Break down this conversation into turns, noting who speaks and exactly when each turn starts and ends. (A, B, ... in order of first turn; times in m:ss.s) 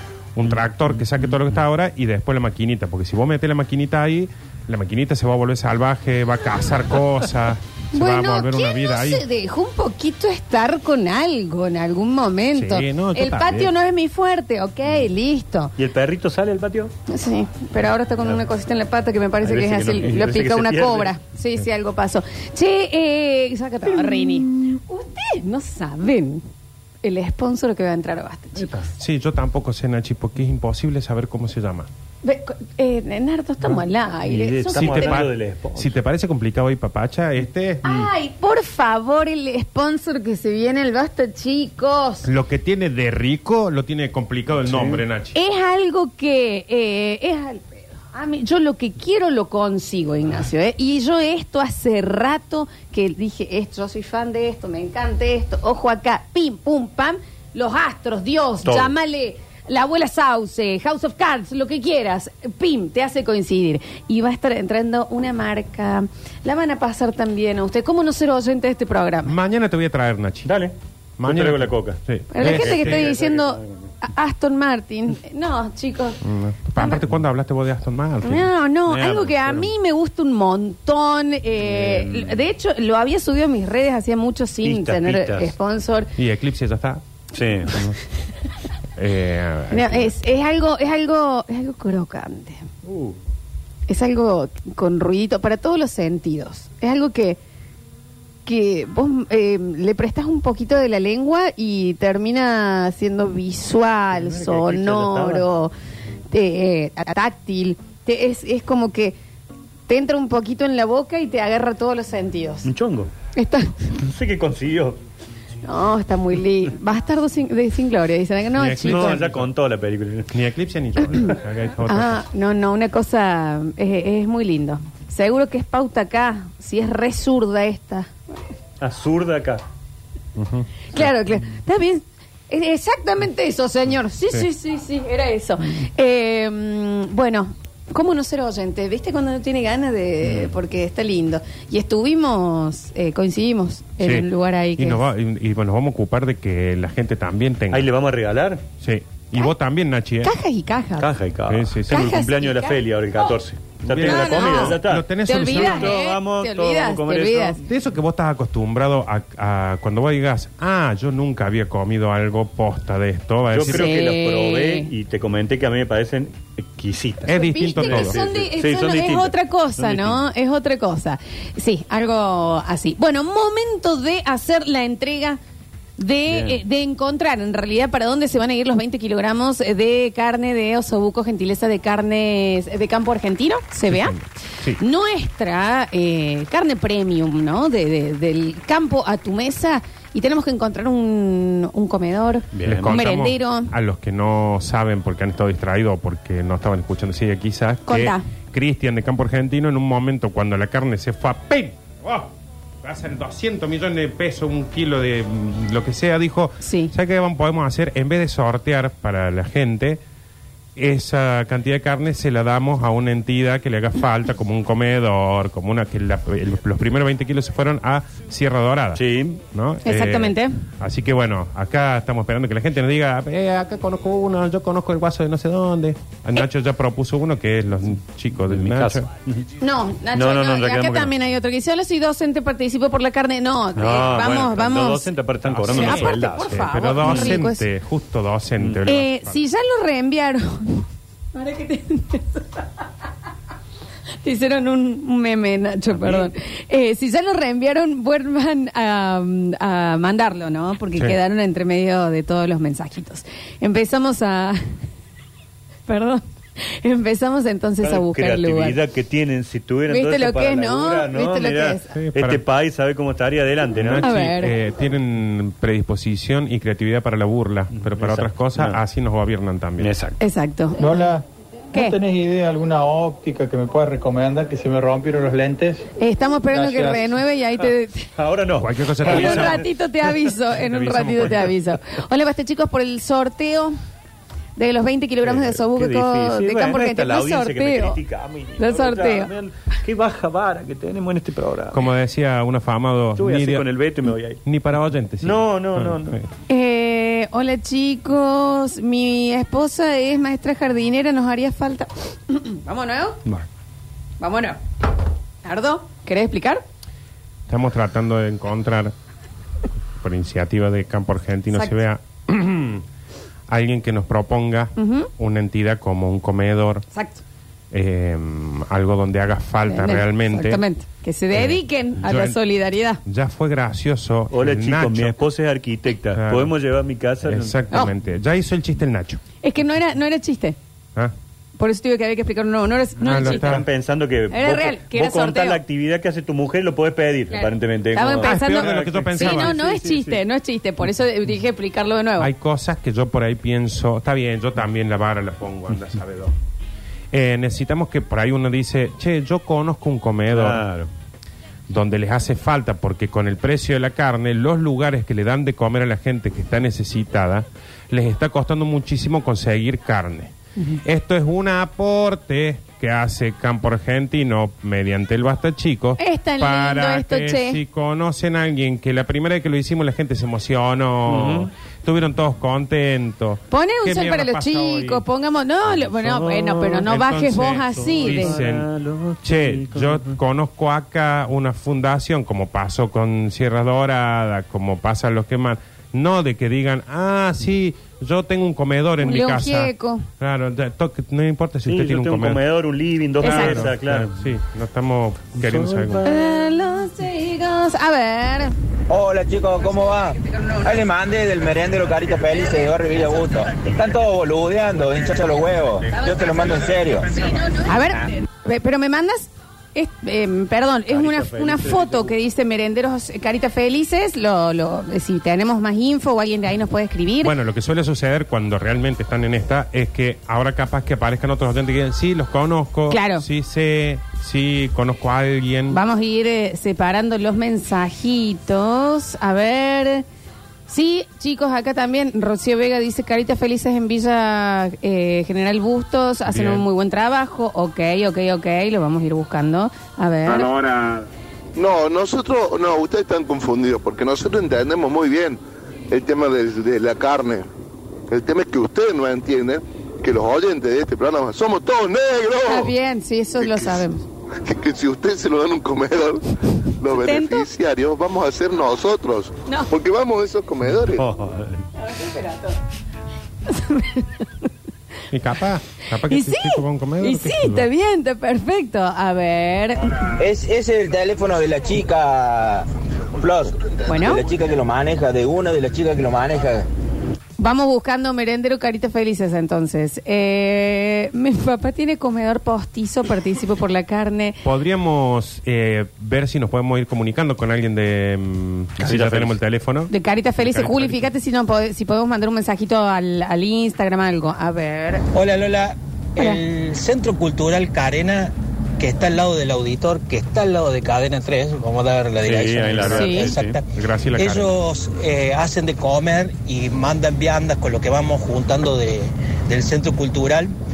0:00.4-0:09.2 A
0:07.9-0:15.7 B
0:12.5-0:13.7 A
0:15.8-0:16.9 C
0:17.1-0:26.4 B
0:19.4-0:21.1 C
0:27.0-0:28.7 B
0:28.6-0:28.9 C
0:29.0-0:31.9 A
0:32.2-0:35.2 B
0:34.2-0:36.0 C
0:34.7-0:37.8 A
0:37.8-0:42.3 B
0:42.2-0:45.4 A
0:44.6-0:45.0 C
0:45.4-1:09.4 B
0:58.6-0:58.9 C
1:09.2-1:10.5 A
1:10.4-1:13.9 C
1:11.2-1:13.1 A
1:12.3-1:16.2 B
1:16.2-1:18.5 A
1:18.2-1:26.1 B
1:18.9-1:19.7 C
1:21.7-1:22.4 C
1:24.6-1:25.6 C
1:26.2-1:27.0 A
1:27.3-1:27.8 C
1:27.7-1:28.0 A
1:29.0-1:30.1 A
1:29.7-1:32.6 B
1:32.8-1:33.2 C
1:33.9-1:37.4 B
1:38.4-1:45.7 B
1:44.1-1:45.5 C
1:46.3-1:49.2 B
1:49.9-1:52.7 B
1:52.6-1:53.1 C
1:53.4-1:53.8 B
1:54.0-1:55.0 C
1:55.6-1:59.2 B
1:58.6-1:59.4 A
1:58.8-2:00.3 C
2:00.3-2:02.2 A
2:01.9-2:08.1 B
2:08.8-2:09.6 C
2:10.4-2:11.1 A
2:10.9-2:25.0 B
2:24.0-2:27.9 A
2:27.7-2:28.6 C
2:28.8-2:30.3 A
2:30.2-2:31.1 B
2:31.0-2:37.6 C
2:31.5-2:32.1 A
2:31.9-2:33.4 B
2:33.9-2:36.0 A
2:34.0-2:37.6 B
2:37.6-2:44.0 A
2:43.5-2:50.2 C
2:43.7-2:44.9 B
2:47.3-2:48.2 A
2:47.3-2:55.4 B
2:56.0-3:04.2 B
2:56.3-2:56.6 C
3:03.9-3:04.8 A
3:04.8-3:13.7 B
3:12.5-3:13.0 C
3:12.6-3:22.3 A
3:17.9-3:18.2 B
3:22.8-3:30.0 A
3:26.6-3:26.9 B
3:30.8-3:49.1 A
3:39.0-3:39.4 C
3:39.9-3:40.5 B
3:48.5-3:49.4 C
3:49.6-3:55.1 B
3:50.1-3:51.1 C
3:53.8-3:57.4 C
3:55.4-3:59.4 A
3:55.7-3:57.7 B
3:58.6-3:58.8 C
3:58.8-4:02.6 B
4:04.2-4:14.6 B
4:05.9-4:06.3 C
4:15.9-4:18.8 B
4:17.8-4:24.2 C
4:19.9-4:21.9 B
4:22.0-4:22.4 A
4:23.7-4:29.9 A
4:24.0-4:24.6 B
4:27.8-4:28.8 C
4:29.8-4:30.2 C
4:30.2-4:31.1 B
4:30.8-4:35.8 D
4:36.0-4:38.1 B
4:36.5-4:37.2 D
4:38.2-4:39.7 C
4:38.6-4:39.7 A
4:39.0-4:43.7 B
4:40.5-4:41.5 A
4:44.6-4:48.0 B
4:45.2-4:51.9 C
4:48.6-4:49.3 B
4:51.7-4:53.7 A
4:53.2-4:54.4 C
4:54.4-4:56.3 A
4:55.2-4:56.2 C
4:56.5-5:03.2 B
5:04.2-5:04.6 B
5:05.4-5:06.6 B
5:07.5-5:08.9 A
5:10.0-5:12.8 A
5:11.6-5:11.8 B
5:13.5-5:16.8 A
5:14.8-5:15.1 B
5:16.9-5:17.2 B
5:17.7-5:20.6 A
5:19.6-5:23.0 B
5:21.3-5:22.4 A
5:23.0-5:25.2 A
5:24.3-5:27.7 C
5:26.1-5:26.5 A
5:27.2-5:29.2 A
5:29.4-5:30.6 B
5:31.6-5:33.6 B
5:33.0-5:33.7 A
5:33.1-5:40.2 C
5:34.3-5:35.6 B
5:37.3-5:42.3 B
5:38.2-5:39.6 A
5:42.2-5:46.3 A
5:47.1-5:50.6 A
5:50.3-5:50.9 C
5:51.7-6:00.3 A
6:00.8-6:15.0 A
6:06.0-6:07.6 B
6:11.1-6:11.5 C
6:13.5-6:18.4 B
6:15.7-6:17.0 C
6:16.8-6:18.7 A
6:17.7-6:20.2 C
6:19.2-6:32.4 A
6:29.0-6:30.1 B
6:31.7-6:34.1 C
6:33.2-6:36.1 A
6:33.2-6:33.7 B
6:35.4-6:36.3 C
6:36.0-6:38.5 B
6:38.9-6:47.1 E
6:47.4-6:57.3 B
6:50.9-6:52.1 C
6:57.2-7:05.8 A
7:02.9-7:03.2 B
7:05.7-7:10.0 B
7:10.7-7:20.5 B
7:16.3-7:16.7 A
7:20.3-7:21.0 F
7:21.6-7:27.5 F
7:28.1-7:32.7 F
7:32.4-7:34.0 B
7:33.4-7:33.8 F
7:34.4-7:36.2 F
7:36.8-7:41.0 F
7:36.9-7:37.5 B
7:40.9-7:41.7 C
7:41.9-7:42.6 B
7:43.5-7:44.2 B
7:45.1-7:47.7 A
7:46.1-7:50.0 B
7:50.2-7:52.7 E
7:53.2-7:56.7 E
7:53.9-7:54.2 B
7:57.4-8:04.4 B
8:04.4-8:11.1 A
8:08.8-8:09.4 C
8:09.9-8:15.0 B
8:15.1-8:30.5 G
8:22.2-8:23.6 C
8:22.9-8:23.3 B
8:23.7-8:24.6 A